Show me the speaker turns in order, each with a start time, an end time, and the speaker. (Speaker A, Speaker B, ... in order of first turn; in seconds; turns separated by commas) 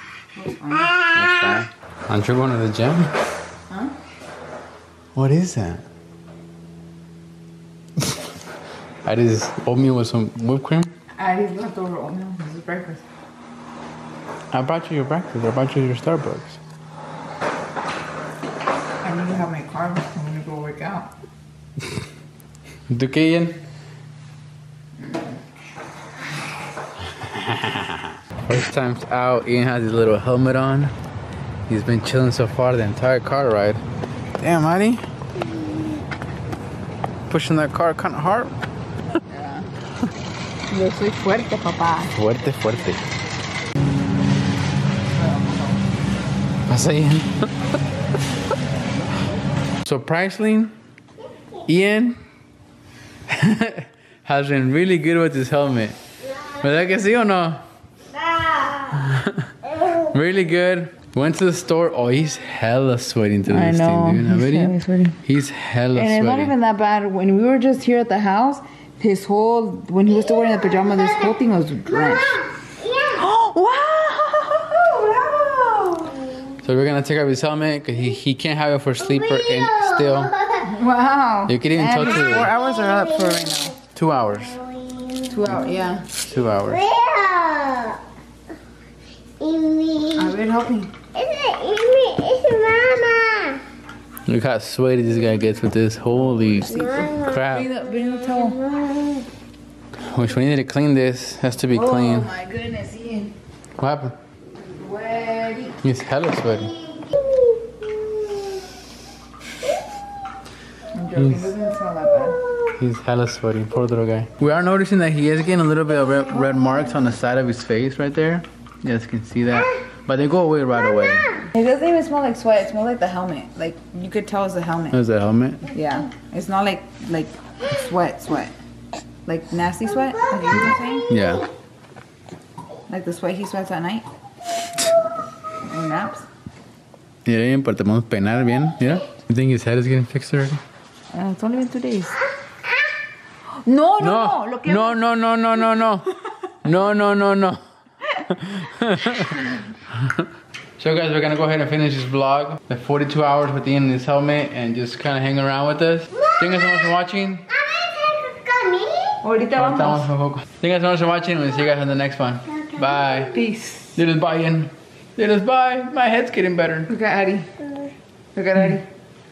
Speaker A: 0.3-1.0, Speaker B: 1.1-3.1, Speaker B: 5.1-5.8, Speaker B: 9.0-10.9, Speaker A: 11.2-13.0, Speaker B: 14.5-16.6, Speaker A: 19.0-21.1, Speaker B: 22.9-23.6, Speaker A: 25.0-25.4, Speaker B: 27.2-30.9, Speaker B: 31.7-33.8, Speaker B: 34.4-35.0, Speaker B: 37.3-38.5, Speaker A: 39.1-39.7, Speaker A: 40.7-42.1, Speaker B: 42.1-43.0, Speaker B: 46.7-47.5, Speaker B: 49.8-50.7, Speaker B: 51.6-52.2, Speaker B: 53.3-56.0, Speaker B: 56.6-57.6, Speaker B: 58.9-59.5, Speaker B: 60.0-66.5, Speaker A: 63.5-65.2, Speaker A: 65.9-72.4, Speaker A: 73.1-76.1, Speaker B: 76.6-80.4, Speaker C: 79.7-80.6, Speaker A: 80.6-83.8, Speaker B: 81.5-82.5, Speaker B: 83.9-84.6, Speaker C: 84.7-85.2, Speaker A: 85.3-86.1, Speaker B: 86.2-86.8, Speaker C: 86.8-88.0, Speaker C: 89.4-90.1, Speaker A: 90.1-90.9, Speaker C: 91.2-93.6, Speaker B: 94.3-97.7, Speaker A: 96.7-98.7, Speaker C: 98.8-99.2, Speaker B: 100.0-102.3, Speaker A: 101.7-103.3, Speaker B: 103.8-104.2, Speaker A: 104.7-105.8, Speaker B: 105.8-106.8, Speaker A: 110.9-112.4, Speaker B: 111.1-111.5, Speaker B: 112.8-121.4, Speaker A: 121.5-125.0, Speaker B: 124.9-125.7, Speaker A: 125.7-128.5, Speaker A: 129.2-131.1, Speaker B: 131.1-131.5, Speaker A: 132.9-134.1, Speaker A: 135.6-136.3, Speaker B: 137.2-140.6, Speaker A: 141.1-142.2, Speaker A: 143.5-145.0, Speaker B: 144.0-146.1, Speaker B: 146.6-147.6, Speaker B: 148.2-149.3, Speaker B: 149.9-157.5, Speaker C: 157.6-159.2, Speaker A: 159.2-160.1, Speaker B: 159.5-163.4, Speaker A: 163.3-163.9, Speaker B: 163.9-166.9, Speaker A: 166.9-167.5, Speaker A: 168.3-168.8